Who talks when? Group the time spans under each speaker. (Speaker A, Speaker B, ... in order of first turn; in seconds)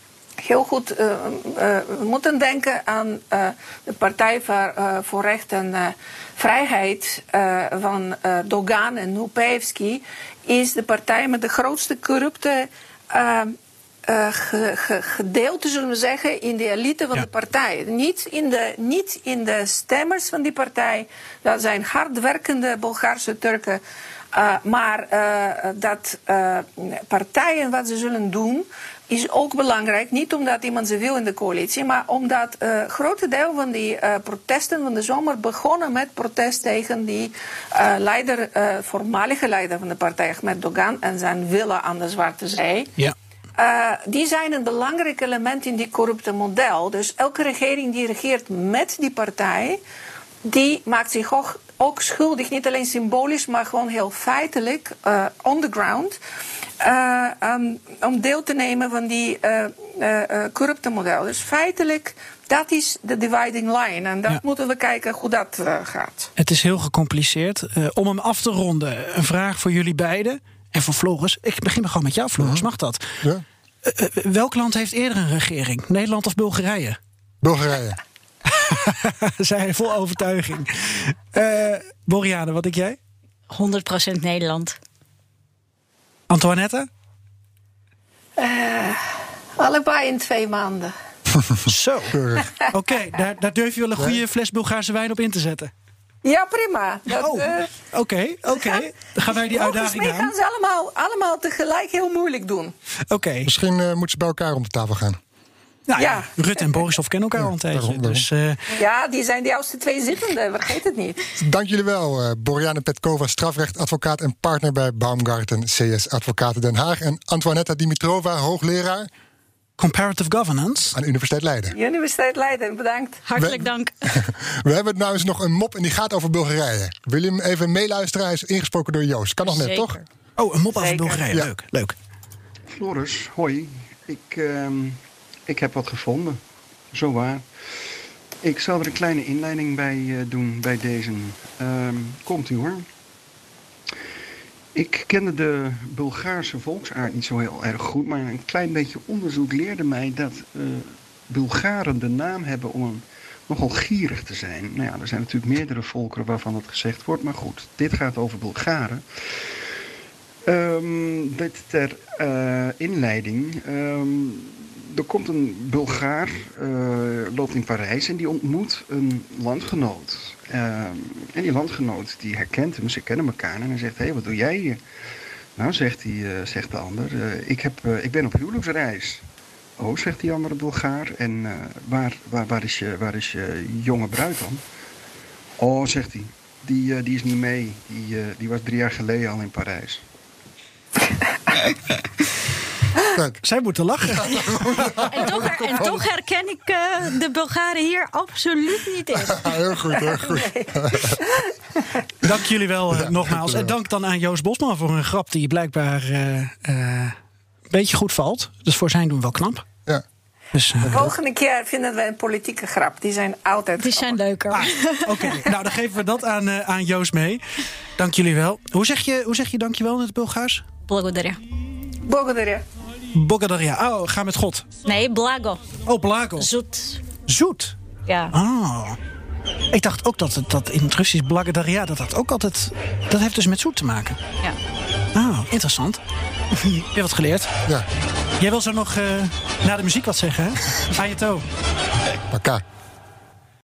Speaker A: 0.4-23.8, 24.3-42.9, 43.6-49.8, 50.4-56.2, 56.8-66.3, 88.4-89.0, 89.6-90.9, 96.2-97.7, 98.5-98.8, 99.4-102.7, 106.0-106.8, 108.7-111.2, 121.7-123.2, 130.8-131.2, 200.2-201.5, 210.9-214.2, 222.0-222.6
Speaker B: 66.3-73.2, 73.8-77.0, 78.5-83.0, 86.3-86.9, 91.7-92.2, 92.7-95.7, 97.1-100.3, 103.1-103.5, 105.9-108.6, 119.8-121.0, 130.4-131.9, 193.4-195.0, 202.2-207.2, 207.7-209.6, 210.5-211.1, 214.5-217.4, 218.0-220.7, 223.1-224.7, 225.8-226.5, 227.2-227.7, 228.3-229.0, 229.7-234.2, 235.1-236.0, 236.5-237.5, 238.4-241.4
Speaker C: 72.4-72.7, 77.4-78.0, 92.1-92.5, 103.4-105.2, 107.3-108.3, 111.4-119.1, 120.9-121.7, 123.4-130.0, 194.1-196.1, 199.3-201.2, 202.9-203.7, 210.8-211.1, 242.3-242.6
Speaker D: 83.5-84.8, 123.2-124.1, 129.4-130.0, 195.1-199.5, 213.8-215.4, 220.8-221.4, 224.8-225.6, 226.4-227.0, 228.1-228.3
Speaker E: 132.7-136.4, 136.9-137.4, 138.4-142.8, 144.7-159.0, 160.5-174.8, 175.6-179.2, 179.8-184.6, 185.6-190.0